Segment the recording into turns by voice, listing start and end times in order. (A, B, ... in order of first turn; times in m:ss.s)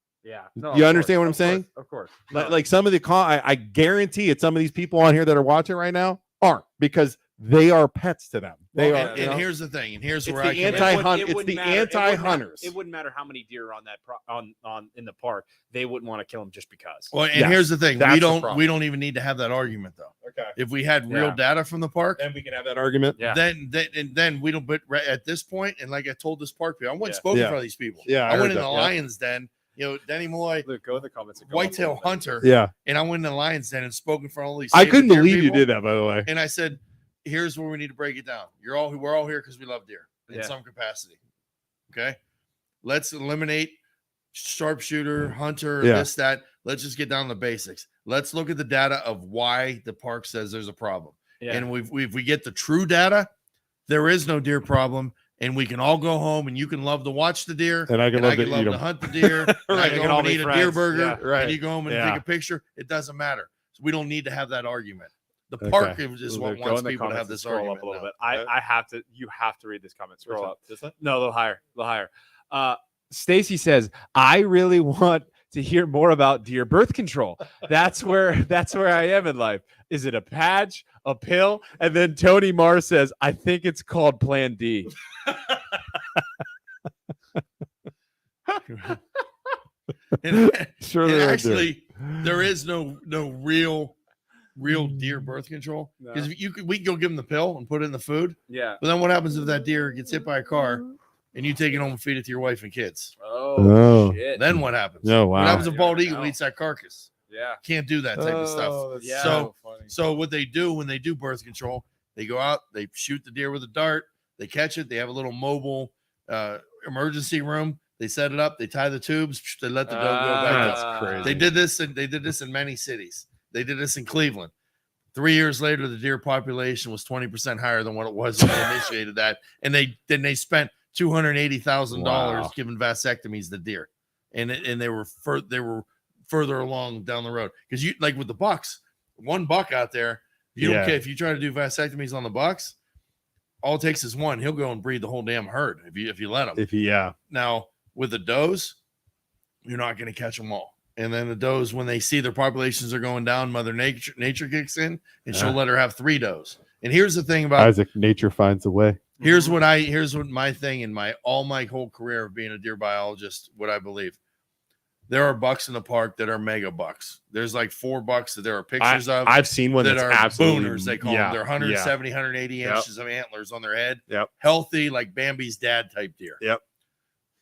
0:00.2-0:02.6 A
0:00.6-0:01.6 B
0:02.3-0:09.4 B
0:08.8-0:11.1 C
0:08.8-0:09.4 A
0:10.2-0:12.7 B
0:10.4-0:17.1 A
0:17.1-0:22.2 C
0:17.3-0:18.3 B
0:18.0-0:18.6 A
0:20.2-0:20.6 B
0:21.1-0:21.4 A
0:22.2-0:23.2 B
0:23.2-0:30.7 C
0:27.3-0:28.9 B
0:30.6-0:32.4 A
0:31.4-0:35.7 C
0:32.4-0:32.7 B
0:34.7-0:36.3 B
0:36.2-0:41.2 C
0:40.3-0:40.5 A
0:41.9-0:42.2 C
0:42.8-0:43.8 C
0:44.3-0:53.3 C
0:45.8-0:46.1 B
0:51.4-0:51.7 A
0:53.9-1:08.1 C
0:57.9-1:02.2 B
0:59.8-1:01.2 A
1:05.6-1:06.0 B
1:06.2-1:24.9 A
1:10.2-1:10.9 B
1:28.7-1:29.0 C
1:30.2-1:34.0 C
1:30.3-1:32.3 B
1:34.6-1:43.1 C
1:36.0-1:36.3 A
1:38.5-1:38.8 A
1:43.2-1:44.4 A
1:43.6-1:44.2 B
1:44.3-1:47.1 C
1:45.0-1:45.7 B
1:45.5-1:46.4 A
1:47.3-1:47.6 A
1:47.6-2:04.5 C
1:48.2-1:49.5 B
1:49.0-1:49.8 A
1:59.8-2:01.4 A
2:00.4-2:01.5 B
2:05.1-2:22.8 C
2:11.9-2:12.5 B
2:20.6-2:21.0 B
2:23.6-2:26.6 C
2:26.6-2:27.1 B
2:27.3-2:28.8 C
2:29.6-2:37.7 C
2:35.3-2:35.6 B
2:37.6-2:39.0 B
2:39.2-2:39.5 A
2:39.2-2:44.2 C
2:45.1-2:56.4 C
2:48.8-2:51.9 B